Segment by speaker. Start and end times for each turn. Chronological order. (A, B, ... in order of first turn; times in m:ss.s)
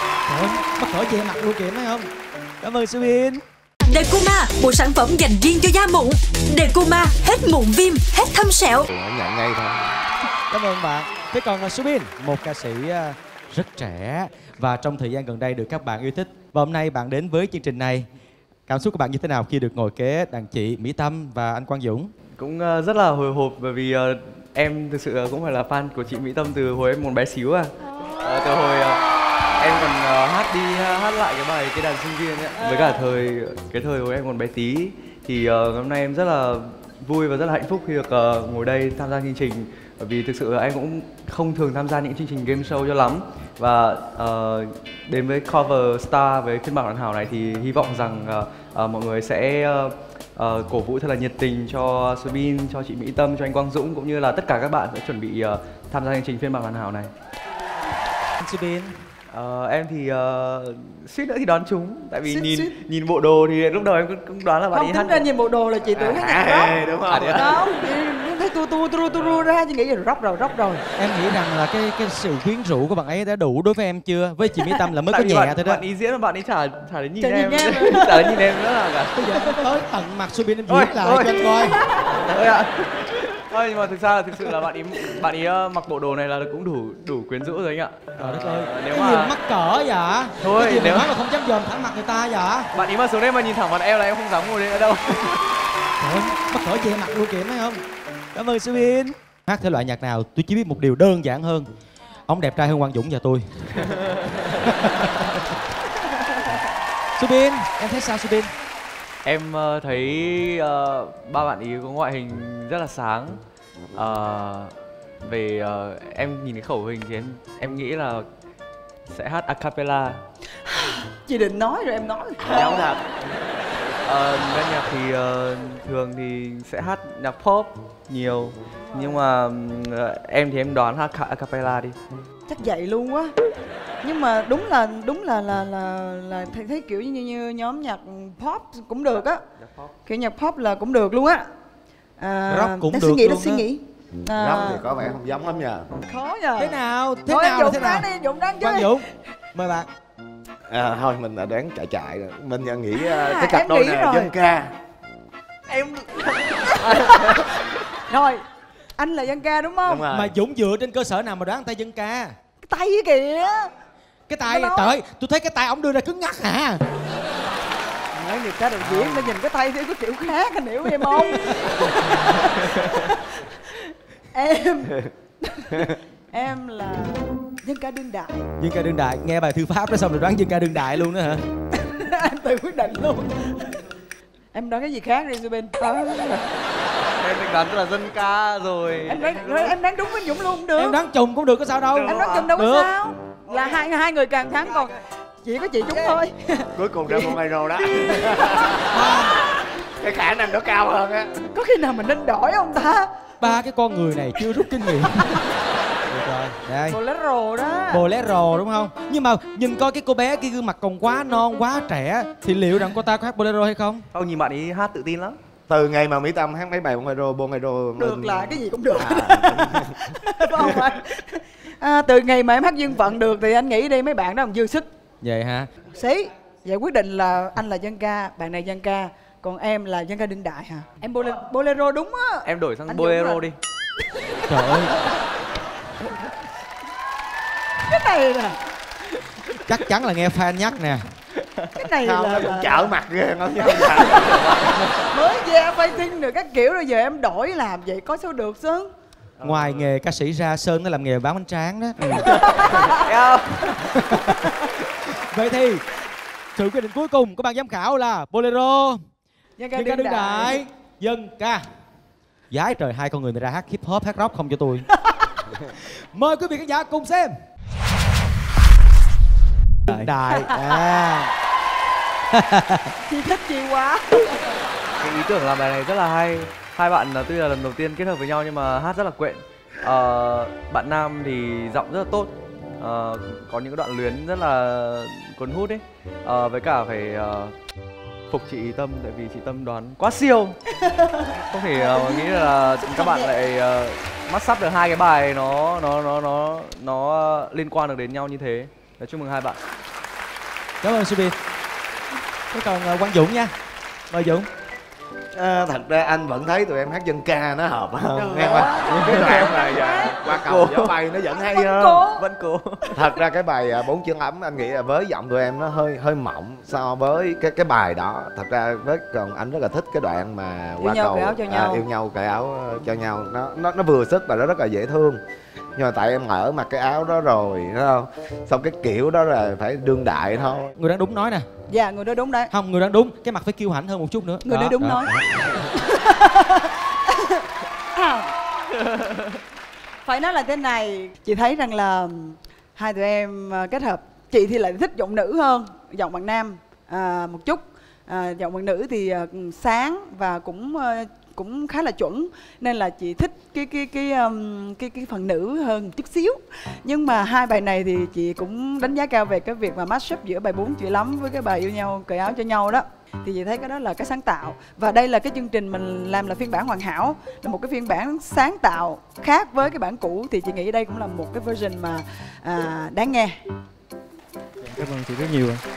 0:00.3-0:02.1 A
0:02.6-0:03.4 A
0:03.9-0:08.9 B
0:08.8-0:09.8 C
0:10.5-0:18.1 A
0:18.7-0:22.1 A
0:22.4-0:29.0 D
0:29.6-0:57.1 D
0:32.6-0:33.0 E
0:58.4-0:59.0 A
0:59.3-1:05.2 D
1:02.3-1:02.7 E
1:04.7-1:06.8 E
1:05.9-1:07.5 C
1:07.1-1:07.5 D
1:07.4-1:10.8 E
1:11.0-1:15.8 A
1:15.1-1:19.2 D
1:17.2-1:18.4 E
1:19.2-1:21.8 A
1:19.3-1:19.6 E
1:20.7-1:21.4 D
1:21.6-1:22.1 E
1:22.0-1:29.3 D
1:28.2-1:32.7 A
1:30.4-1:31.1 D
1:32.7-1:35.5 D
1:36.0-1:37.8 A
1:38.3-1:41.7 A
1:42.3-1:43.9 A
1:43.8-1:45.3 D
1:44.6-1:45.5 A
1:47.2-1:48.5 A
1:49.2-1:53.4 D
1:53.9-1:58.3 D
1:59.1-2:00.2 D
2:00.7-2:02.9 E
2:02.4-2:03.0 C
2:02.6-2:02.9 D
2:04.0-2:12.0 D
2:08.9-2:09.2 E
2:12.5-2:13.3 E
2:14.0-2:19.4 E
2:20.1-2:21.4 E
2:22.2-2:24.9 E
2:22.5-2:23.7 A
2:24.3-2:25.9 C
2:25.9-2:29.0 E
2:26.6-2:28.1 A
2:28.6-2:29.9 A
2:30.7-2:34.7 C
2:33.0-2:34.3 E
2:35.7-2:37.5 D
2:36.8-2:37.4 E
2:38.1-2:38.4 E
2:39.0-2:40.1 E
2:39.9-2:40.3 C
2:40.1-2:42.4 A
2:42.6-2:43.7 E
2:44.3-2:46.8 A
2:44.4-2:44.9 E
2:48.1-2:53.8 E
2:48.9-2:49.3 D
2:54.3-2:58.5 E
2:58.6-3:01.4 A
3:01.7-3:03.8 E
3:04.5-3:06.5 E
3:07.2-3:09.8 D
3:09.1-3:11.0 E
3:10.8-3:12.9 A
3:11.9-3:12.5 D
3:12.1-3:17.4 E
3:16.8-3:19.1 C
3:18.0-3:19.3 E
3:18.9-3:19.4 A
3:20.0-3:21.4 C
3:21.5-3:23.1 E
3:23.4-3:25.4 A
3:25.0-3:25.5 E
3:26.1-3:27.0 A
3:26.9-3:28.0 E
3:27.9-3:34.0 A
3:34.1-3:35.4 D
3:35.7-3:40.0 C
3:38.0-3:44.9 E
3:45.2-3:45.7 A
3:45.9-3:53.4 E
3:52.4-3:53.6 D
3:54.2-3:55.2 E
3:54.5-3:55.0 A
3:57.8-3:58.6 E
3:59.6-4:01.1 A
4:01.8-4:03.0 E
4:02.0-4:04.6 C
4:03.8-4:04.2 E
4:03.9-4:04.9 D
4:05.1-4:08.9 E
4:09.4-4:10.0 D
4:09.4-4:12.3 A
4:12.3-4:13.0 E
4:12.5-4:13.8 D
4:13.8-4:14.5 A
4:15.1-4:15.8 A
4:16.6-4:19.0 A
4:19.6-4:20.6 E
4:19.7-4:21.6 A
4:22.5-4:24.9 A
4:25.1-4:25.3 E
4:25.6-4:27.3 A
4:29.9-4:31.3 A
4:30.3-4:30.9 E
4:32.3-4:32.9 A
4:33.1-4:34.5 E
4:35.0-4:47.6 D
4:48.3-4:50.6 D
4:50.9-4:53.3 E
4:51.4-4:59.6 D
5:00.8-5:01.4 A
5:02.5-5:03.5 A
5:04.1-5:04.5 A
5:05.3-5:12.1 C
5:08.2-5:09.6 D
5:08.4-5:10.3 E
5:10.2-5:11.0 D
5:11.3-5:12.2 E
5:12.1-5:13.0 D
5:12.9-5:25.2 C
5:20.8-5:21.8 E
5:25.8-5:30.7 C
5:30.8-5:31.5 A
5:31.7-5:32.5 E
5:32.5-5:35.1 A
5:34.4-5:38.3 E
5:40.0-6:13.4 E
6:14.7-6:15.6 D